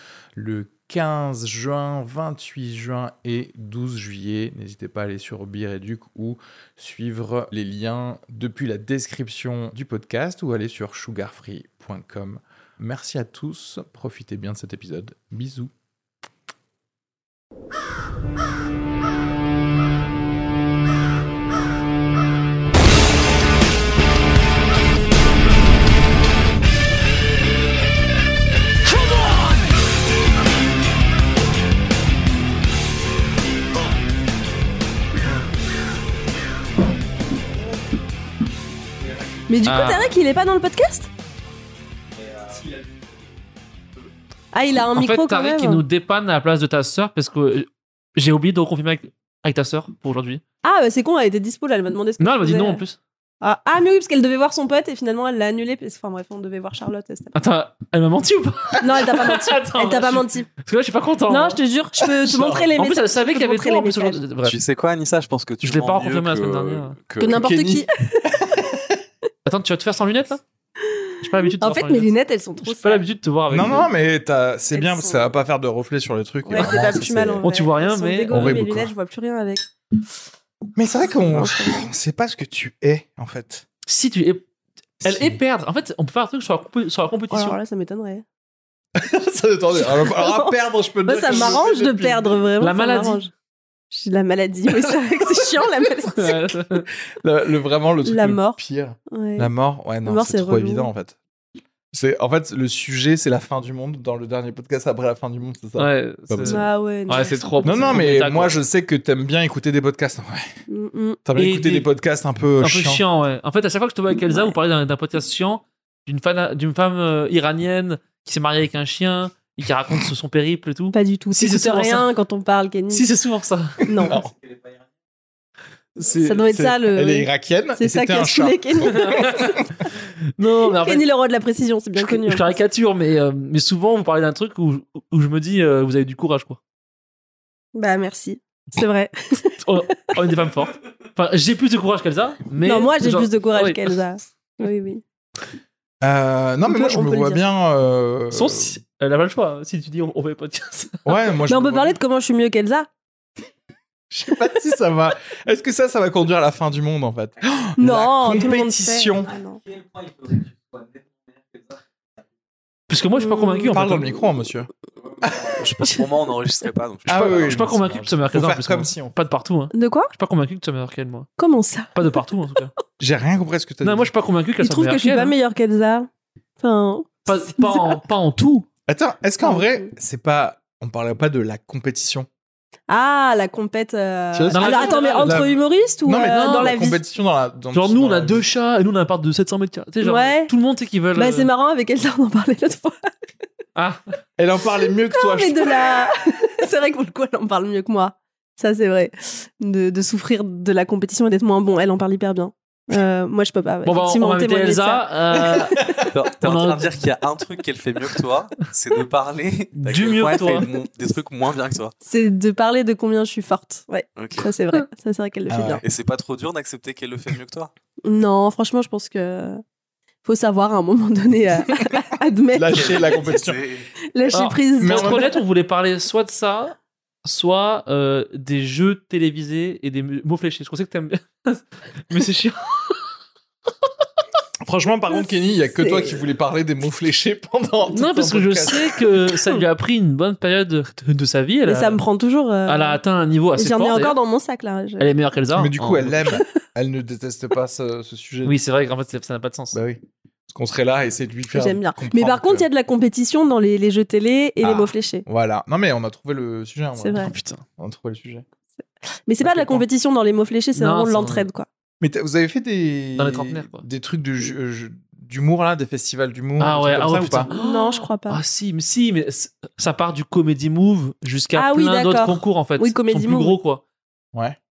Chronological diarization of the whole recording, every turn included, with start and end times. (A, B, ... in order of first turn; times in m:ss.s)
0:00.4-0:15.7 A
0:39.5-0:41.1 B
0:39.6-0:40.1 C
0:44.5-0:45.8 B
0:44.9-0:50.4 C
0:50.6-0:52.8 B
0:52.2-0:53.0 C
0:53.4-0:57.3 B
0:57.3-1:01.6 C
0:58.8-1:00.5 B
1:01.3-1:04.2 B
1:02.0-1:02.7 A
1:02.8-1:04.6 C
1:04.4-1:07.5 D
1:05.6-1:07.0 C
1:07.2-1:08.2 B
1:07.2-1:09.0 A
1:09.4-1:10.4 C
1:10.8-1:13.0 B
1:11.2-1:13.9 C
1:13.5-1:17.4 A
1:14.7-1:15.3 B
1:16.5-1:19.7 B
1:16.5-1:16.8 C
1:17.4-1:18.7 C
1:18.3-1:18.9 A
1:20.8-1:23.6 A
1:21.3-1:21.8 B
1:23.9-1:24.4 C
1:25.0-1:27.6 C
1:27.3-1:28.2 B
1:29.0-1:32.4 A
1:29.7-1:30.5 B
1:31.0-1:33.3 B
1:31.2-1:31.5 C
1:32.6-1:33.2 C
1:33.9-1:36.4 B
1:36.1-1:36.9 C
1:37.2-1:41.1 A
1:38.0-1:38.6 B
1:39.1-1:39.5 B
1:40.0-1:40.9 B
1:41.9-1:46.6 A
1:45.8-1:48.6 C
1:46.4-1:48.0 B
1:47.6-1:50.5 A
1:50.7-1:51.2 B
1:51.2-1:53.0 A
1:51.4-1:51.9 C
1:52.6-2:02.1 C
1:54.2-1:54.5 B
2:00.9-2:03.0 B
2:02.9-2:03.8 C
2:03.8-2:04.2 B
2:04.0-2:04.3 A
2:06.0-2:06.4 C
2:06.2-2:09.6 B
2:06.5-2:09.6 A
2:08.8-2:09.8 C
2:10.4-2:11.0 C
2:10.8-2:12.6 B
2:11.9-2:16.6 C
2:17.7-2:20.2 B
2:19.6-2:24.0 C
2:22.6-2:25.0 B
2:26.0-2:28.8 A
2:26.6-2:27.4 B
2:28.3-2:31.3 C
2:31.0-2:31.9 A
2:31.5-2:32.9 B
2:34.1-2:39.3 A
2:37.8-2:39.6 B
2:40.3-2:40.7 D
2:42.9-2:44.1 C
2:43.2-2:43.7 B
2:43.7-2:44.7 A
2:45.5-2:48.1 D
2:47.1-2:47.7 A
2:47.1-2:51.3 C
2:48.3-2:49.1 A
2:49.7-2:50.1 B
2:51.4-2:51.9 B
2:51.9-2:52.7 C
2:53.0-2:54.1 A
2:53.8-2:55.3 C
2:54.6-2:56.1 B
2:56.6-2:58.0 B
2:57.2-2:58.7 C
2:58.9-3:02.3 A
2:59.4-2:59.9 B
3:02.9-3:07.0 B
3:04.3-3:05.5 A
3:04.5-3:05.5 C
3:06.0-3:08.4 A
3:06.2-3:06.9 C
3:07.7-3:11.5 C
3:10.0-3:10.5 B
3:11.1-3:13.0 B
3:13.8-3:14.0 C
3:14.4-3:16.0 A
3:15.1-3:26.0 B
3:23.8-3:26.9 C
3:26.0-3:31.9 D
3:29.8-3:30.7 C
3:32.0-3:35.8 B
3:34.2-3:34.5 D
3:35.5-3:35.8 A
3:35.8-3:37.7 D
3:38.0-3:39.6 B
3:40.2-3:43.2 B
3:42.5-3:43.6 A
3:42.7-3:43.9 D
3:44.1-3:45.4 B
3:44.3-3:53.0 C
3:44.8-3:45.2 A
3:54.6-3:58.9 A
3:55.1-3:56.3 B
3:57.9-4:02.0 C
4:01.6-4:03.0 B
4:02.6-4:04.2 C
4:03.5-4:05.1 B
4:05.0-4:06.4 C
4:05.5-4:08.5 A
4:08.4-4:09.8 C
4:09.7-4:12.6 A
4:11.5-4:15.2 B
4:14.6-4:17.3 A
4:17.0-4:17.3 B
4:17.2-4:17.6 C
4:17.8-4:18.4 A
4:19.2-4:21.7 B
4:19.4-4:19.8 A
4:20.7-4:21.5 C
4:22.0-4:27.5 A
4:23.2-4:23.8 C
4:26.6-4:33.8 C
4:27.5-4:28.4 B
4:31.5-4:33.6 B